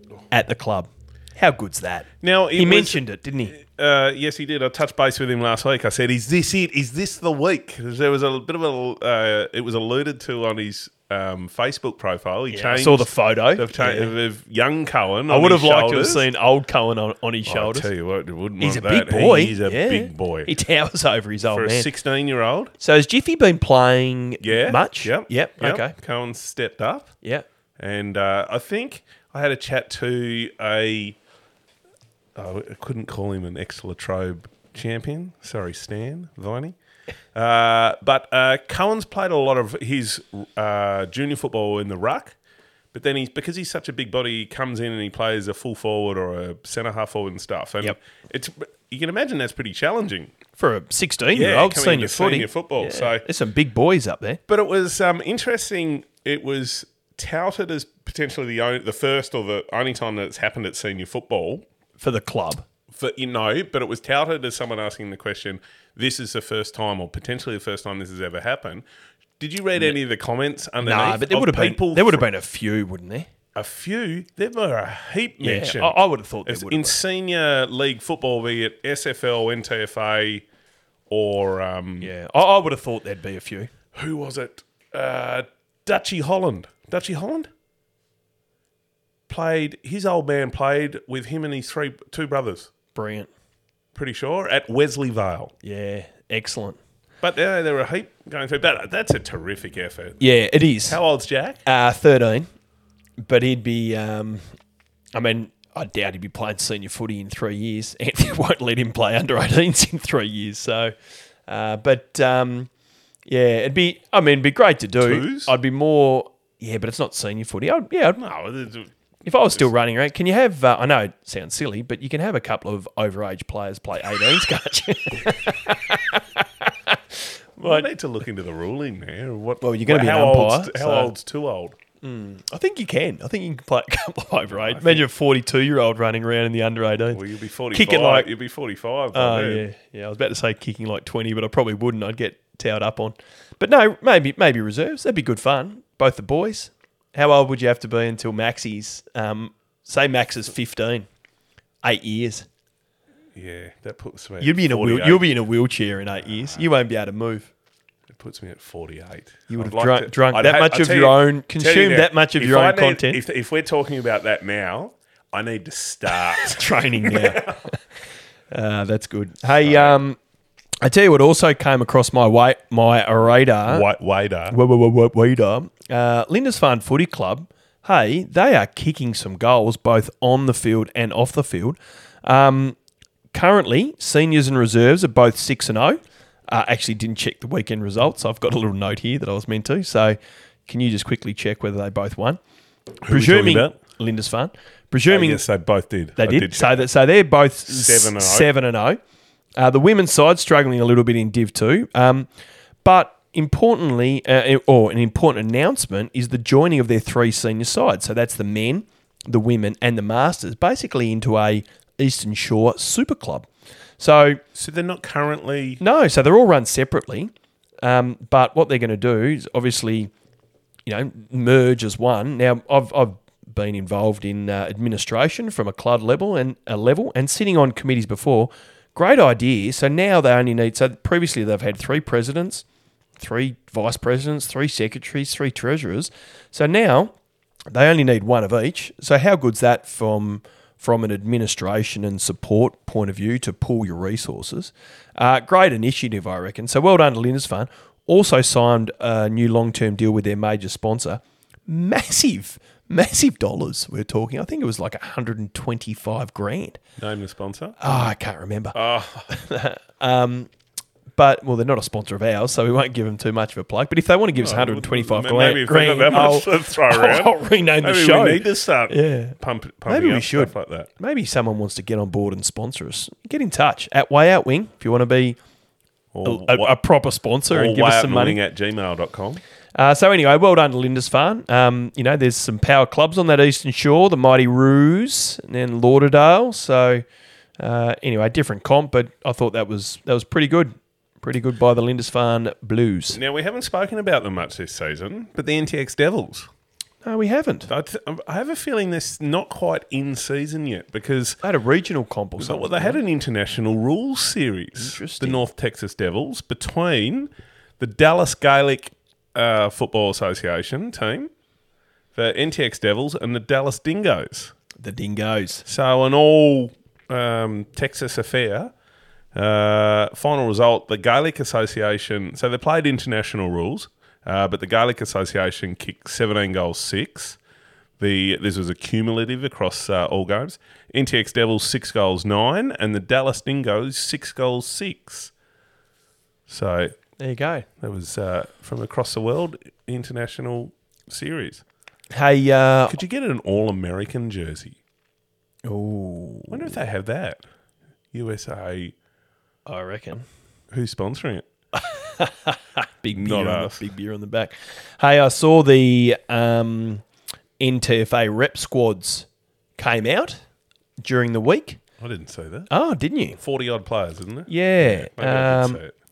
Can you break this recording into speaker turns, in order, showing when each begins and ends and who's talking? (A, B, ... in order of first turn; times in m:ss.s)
0:00.3-0:03.6 A
0:02.2-0:16.2 B
0:12.5-0:14.1 A
0:15.3-0:17.9 A
0:17.4-0:20.5 B
0:18.6-0:21.9 A
0:21.5-0:22.7 B
0:22.8-0:25.9 A
0:24.4-0:27.1 B
0:27.8-0:31.2 B
0:32.3-0:36.7 B
0:37.3-0:42.4 B
0:42.9-0:50.3 B
0:50.6-0:54.4 A
0:51.3-0:53.2 B
0:54.5-1:01.6 B
1:02.0-1:02.6 A
1:02.9-1:08.8 B
1:09.4-1:12.3 B
1:10.8-1:13.3 A
1:13.5-1:20.4 B
1:15.4-1:17.0 A
1:21.1-1:22.1 B
1:22.0-1:23.7 A
1:23.9-1:27.5 B
1:29.3-1:32.7 B
1:32.9-1:33.3 A
1:33.9-1:35.5 B
1:35.6-1:36.8 A
1:37.2-1:40.2 B
1:40.2-1:41.0 A
1:40.9-1:41.6 B
1:41.6-1:42.5 A
1:43.2-1:44.5 A
1:45.1-1:50.9 A
1:51.5-1:52.7 A
1:53.3-1:58.2 A
1:55.0-1:55.6 B
1:58.2-1:58.9 B
1:59.2-2:07.8 A
2:07.6-2:11.8 B
2:09.6-2:11.1 A
2:12.0-2:18.3 A
2:14.5-2:15.0 B
2:17.1-2:19.6 B
2:19.1-2:31.1 A
2:31.8-2:32.4 A
2:33.3-2:35.2 B
2:34.4-2:37.5 A
2:38.1-2:47.6 B
2:39.5-2:43.2 A
2:46.1-2:47.8 A
2:48.5-2:50.2 A
2:49.6-2:50.0 B
2:50.8-2:53.8 A
2:53.6-2:54.6 B
2:54.5-3:02.8 A
3:03.3-3:12.4 A
3:13.0-3:13.8 B
3:13.1-3:15.4 A
3:15.1-3:16.9 B
3:16.2-3:19.0 A
3:17.7-3:18.5 B
3:19.6-3:22.3 A
3:22.8-3:33.5 A
3:34.0-3:34.4 A
3:34.5-3:35.8 B
3:35.8-3:40.1 A
3:40.8-3:52.6 A
3:53.2-3:57.1 A
3:57.7-4:16.8 A
4:17.0-4:18.1 B
4:17.8-4:20.5 A
4:18.7-4:19.3 B
4:21.2-4:29.4 A
4:24.3-4:30.9 B
4:29.9-4:35.4 A
4:36.1-4:36.8 B
4:36.2-4:38.4 A
4:37.5-4:39.4 B
4:39.7-4:47.0 A
4:47.6-4:53.2 A
4:53.1-4:56.5 B
4:57.0-4:57.7 A
4:57.7-5:01.4 B
5:01.4-5:03.0 A
5:02.4-5:11.3 B
5:04.8-5:05.4 A
5:12.1-5:14.5 B
5:14.8-5:15.6 A
5:15.6-5:18.7 B
5:19.3-5:27.4 B
5:28.0-5:35.3 B
5:36.5-5:37.0 B
5:37.2-5:37.7 A
5:37.8-5:41.6 B
5:42.1-5:42.9 A
5:42.9-5:44.8 B
5:45.6-5:46.7 A
5:46.5-5:47.4 B
5:48.1-5:48.9 B
5:49.6-5:50.2 A
5:50.7-5:51.4 B
5:51.7-5:57.0 A
5:53.1-5:53.8 B
5:57.6-5:59.2 A
5:59.8-6:00.4 A
6:01.0-6:01.8 A
6:02.0-6:02.7 B
6:02.7-6:03.4 A
6:03.4-6:05.9 B
6:04.5-6:05.8 A